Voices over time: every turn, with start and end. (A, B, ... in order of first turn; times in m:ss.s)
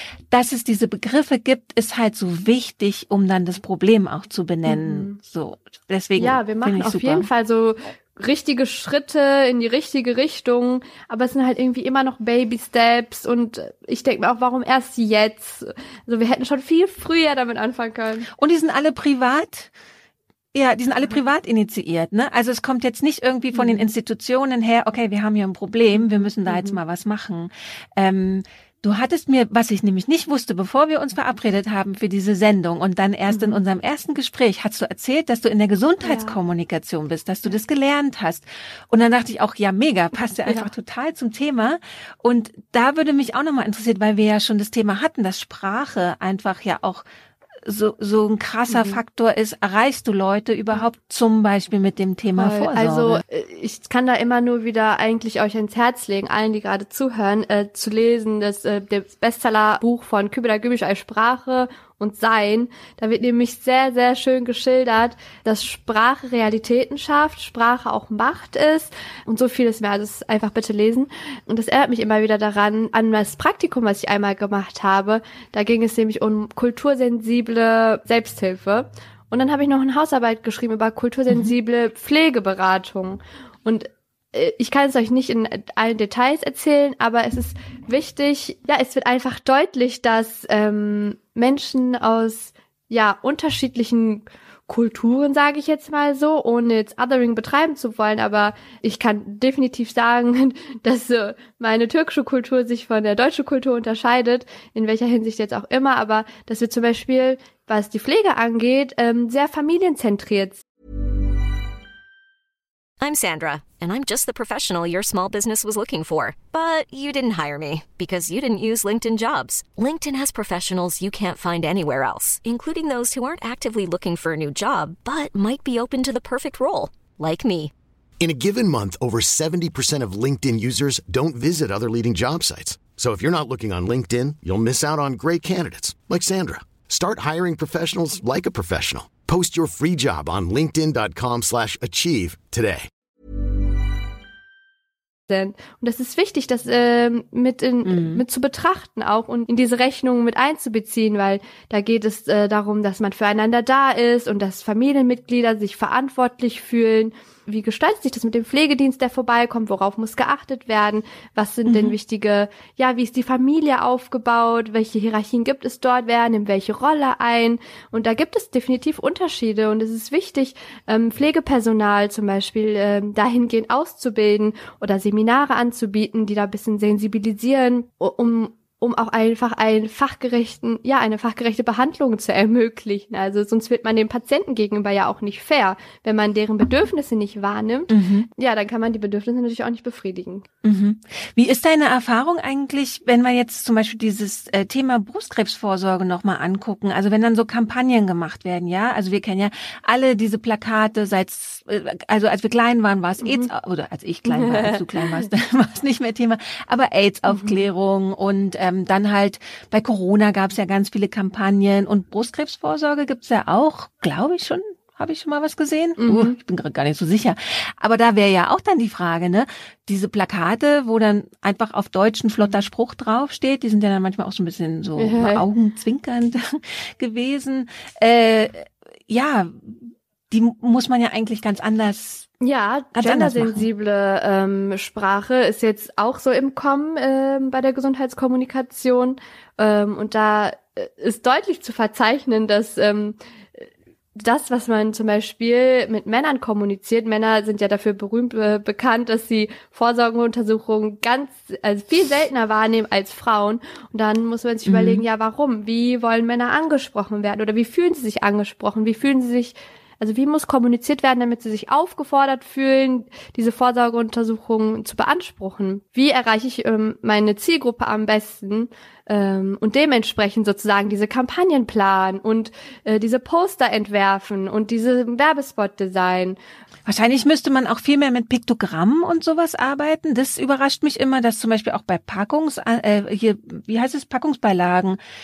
0:00.3-0:07.3 A
0:04.7-0:05.2 B
0:06.2-0:18.3 B
0:18.4-0:19.7 A
0:20.5-0:47.0 A
0:23.5-0:23.9 B
0:25.9-0:26.8 B
0:33.3-0:33.6 B
0:36.0-0:36.4 B
0:47.6-0:53.2 A
0:48.7-0:49.0 B
0:52.4-1:50.6 B
1:53.0-2:07.7 C
2:08.2-2:22.9 D
2:25.3-3:10.5 B
2:27.8-2:28.2 A
2:41.7-2:42.0 A
3:07.9-3:08.3 A
3:10.6-3:52.3 A
3:23.2-3:23.5 B
3:24.3-3:25.2 B
3:27.3-3:27.7 B
3:36.0-3:36.4 B
3:45.0-3:45.4 B
3:52.4-4:03.6 B
3:53.0-3:53.7 A
4:04.2-4:36.4 B
4:14.6-4:15.0 A
4:36.9-4:45.0 A